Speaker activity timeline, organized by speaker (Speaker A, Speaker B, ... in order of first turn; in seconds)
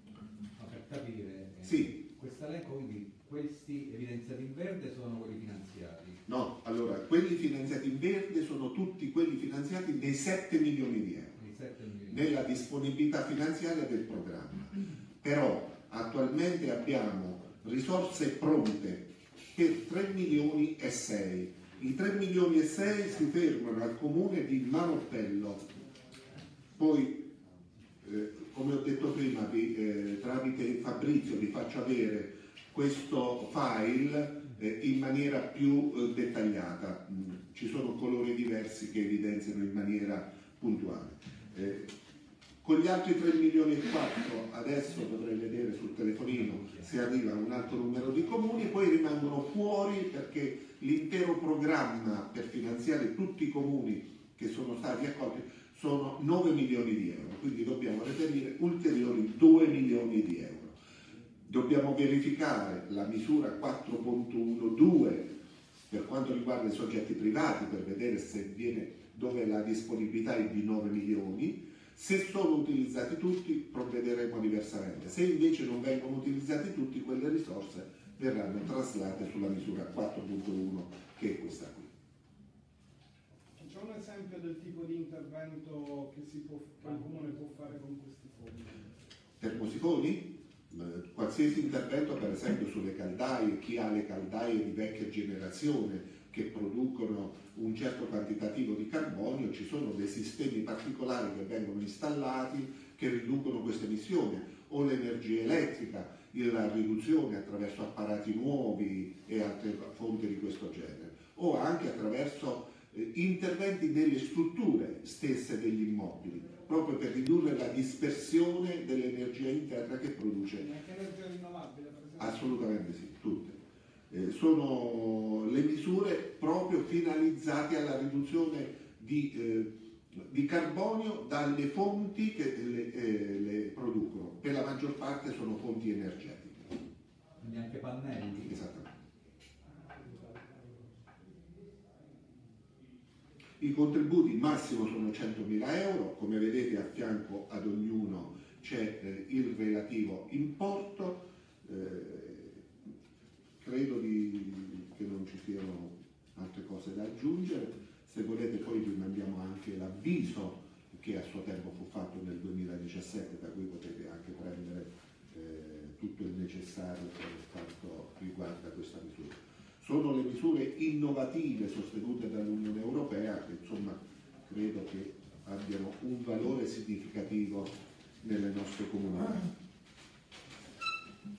Speaker A: 0.6-6.2, 11.4-12.2, 46.6-46.8, 137.4-138.5
Speaker B: 1.6-1.9, 6.2-11.4, 12.1-25.6, 26.7-27.2, 28.0-41.9, 42.6-60.8, 61.5-65.3, 65.9-81.9, 89.4-120.6, 122.2-123.6, 124.1-136.7, 138.3-138.9, 143.6-152.7, 153.6-179.5
Speaker C: 83.5-88.8, 120.5-122.5, 140.3-140.6